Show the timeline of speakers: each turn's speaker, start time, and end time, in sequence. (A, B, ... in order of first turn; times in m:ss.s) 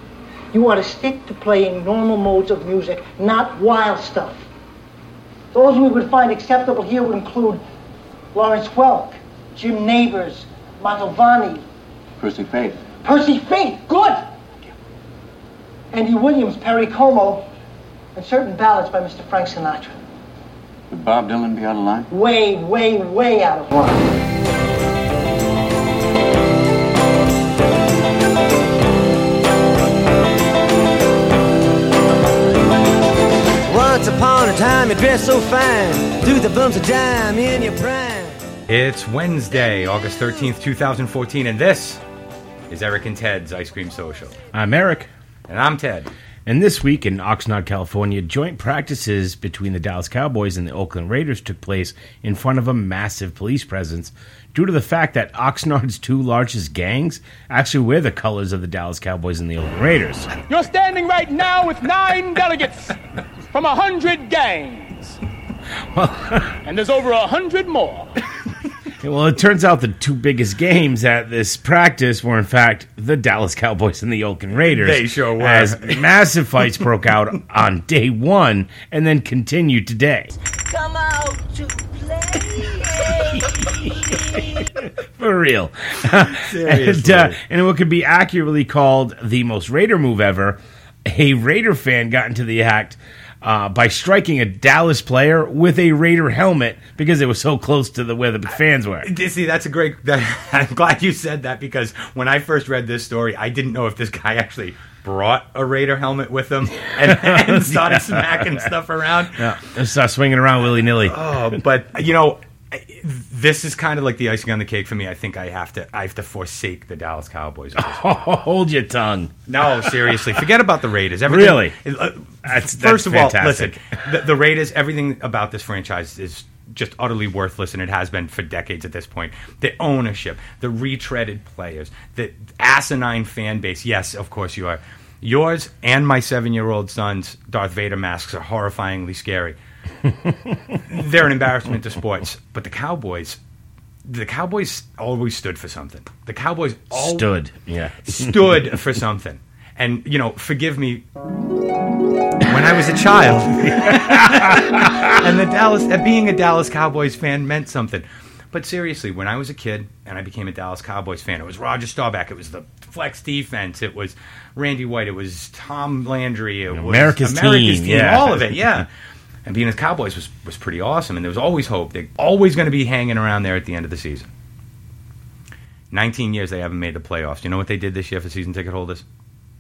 0:00.5-0:04.4 A
0:05.5-0:07.6 A
0:08.3-0:11.6 A
0:12.2-0:12.8 B
0:13.0-0:14.3 A
0:15.9-0:17.5 A
0:18.1-0:20.0 A
0:20.9-0:22.1 B
0:22.1-0:24.2 A
0:33.6-0:38.4 C
0:38.7-0:42.0 D
0:42.7-0:44.3 D
0:44.5-0:45.1 E
0:45.5-0:46.1 D
0:46.4-1:00.3 E
1:00.5-1:03.0 F
1:03.5-1:05.2 F
1:05.9-1:06.6 E
1:06.6-1:08.1 F
1:09.0-1:20.4 E
1:14.7-1:16.1 D
1:20.5-1:24.7 C
1:24.8-1:39.1 E
1:26.3-1:27.4 D
1:39.0-1:49.6 D
1:47.0-1:48.4 E
1:49.4-1:51.2 E
1:51.0-1:58.0 D
1:57.8-2:00.4 E
1:59.5-2:19.6 D
2:01.2-2:01.8 E
2:02.4-2:03.8 E
2:20.9-2:23.4 D
2:24.1-2:27.3 D
2:26.9-2:28.5 E
2:28.0-2:31.0 D
2:32.4-2:48.9 D
2:33.7-2:35.1 E
2:46.7-2:48.8 E
2:49.4-2:54.3 D
2:55.9-2:59.0 D